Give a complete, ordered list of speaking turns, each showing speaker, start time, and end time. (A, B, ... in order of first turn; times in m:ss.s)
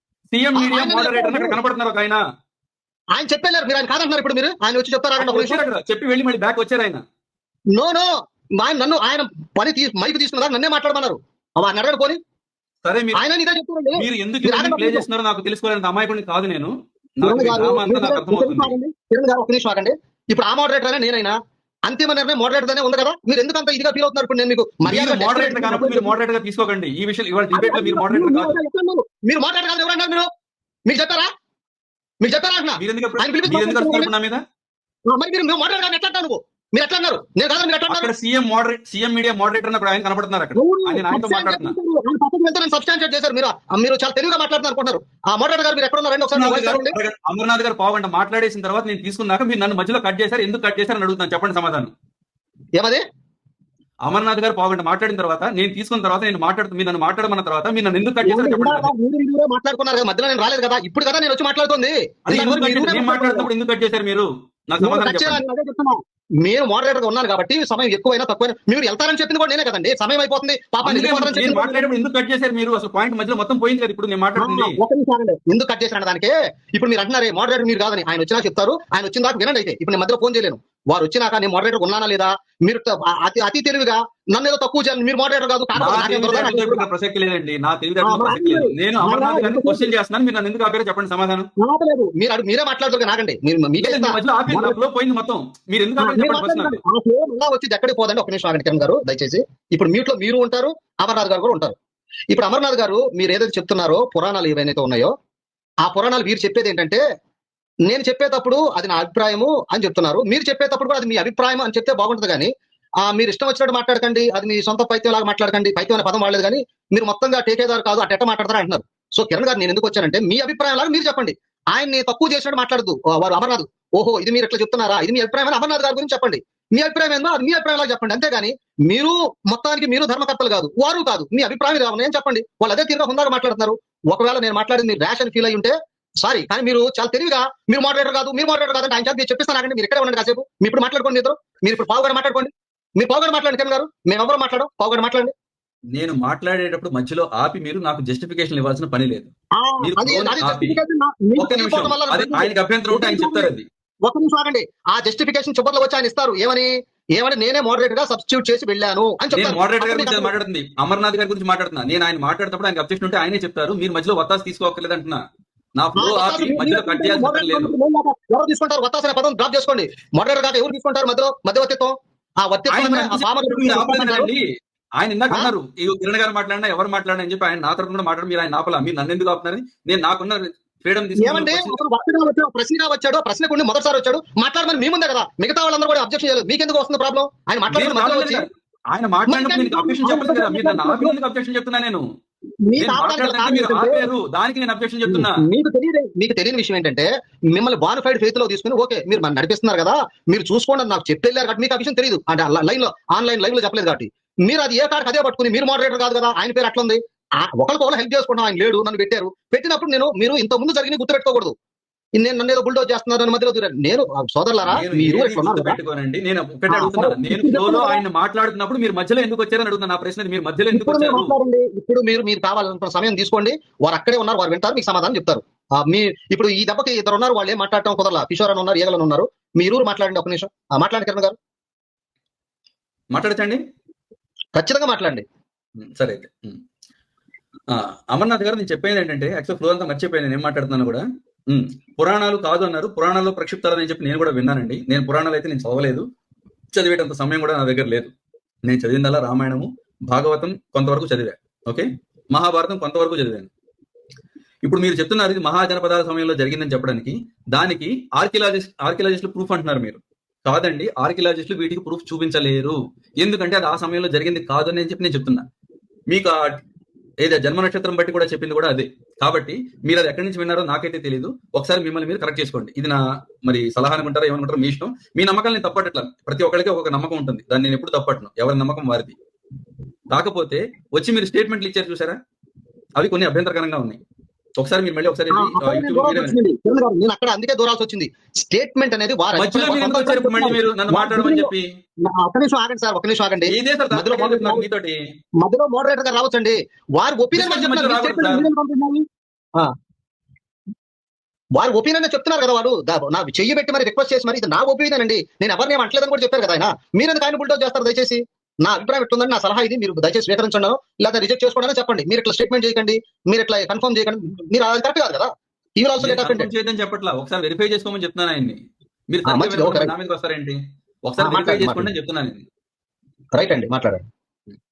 0:00.3-0:02.2 A
0:00.5-0:01.6 B
0:03.1-0:05.6 B
0:05.2-0:07.0 A
0:07.7-0:12.2 B
0:12.8-0:13.2 A
0:13.1-0:15.0 B
0:14.0-0:18.7 A
0:17.2-0:21.3 B
0:21.8-0:26.1 B
0:24.8-0:28.5 A
0:27.5-0:30.3 B
0:30.8-0:31.3 B
0:32.2-0:34.1 B
0:32.8-0:34.4 A
0:35.1-0:38.1 B
0:37.9-0:41.7 A
0:40.5-0:47.0 B
0:46.3-0:51.9 A
0:52.8-0:53.0 B
0:54.0-0:58.9 A
0:58.2-1:03.5 B
1:02.3-1:05.4 A
1:04.8-1:11.9 B
1:10.8-1:14.8 A
1:14.4-1:26.8 B
1:25.8-1:31.5 A
1:28.0-1:29.9 B
1:31.6-1:34.8 B
1:33.8-1:36.8 A
1:36.0-1:41.8 B
1:42.3-1:45.1 B
1:45.8-1:47.0 B
1:47.9-2:25.3 B
2:25.9-2:30.8 A
2:29.6-2:33.5 B
2:31.4-2:33.6 A
2:34.0-2:40.3 B
2:39.3-2:45.2 A
2:45.8-2:47.7 A
2:46.0-2:54.3 B
2:52.7-2:54.4 A
2:55.0-3:01.8 A
3:01.2-3:08.4 B
3:07.7-3:12.0 A
3:09.3-3:11.2 B
3:12.6-3:14.1 B
3:12.8-3:15.4 A
3:15.1-3:31.5 B
3:32.2-3:35.8 B
3:34.7-3:41.3 A
3:36.7-3:38.0 B
3:40.7-3:51.4 B
3:53.1-3:53.6 A
3:54.5-3:55.2 B
3:55.8-3:56.6 A
3:57.7-4:06.0 A
4:06.7-4:08.1 A
4:08.6-4:13.5 A
4:14.6-4:25.4 A
4:26.1-4:26.4 A
4:27.2-4:39.2 A
4:40.1-4:42.2 A
4:43.0-4:44.0 A
4:44.6-4:46.4 A
4:45.3-4:51.5 B
4:49.4-4:51.7 A
4:52.0-4:54.6 B
4:53.5-4:55.0 A
4:55.4-4:59.7 B
4:57.3-4:58.5 A
5:01.6-5:16.5 B
5:16.0-5:22.4 A
5:19.2-5:19.9 B
5:21.2-5:21.9 B
5:23.3-5:24.0 B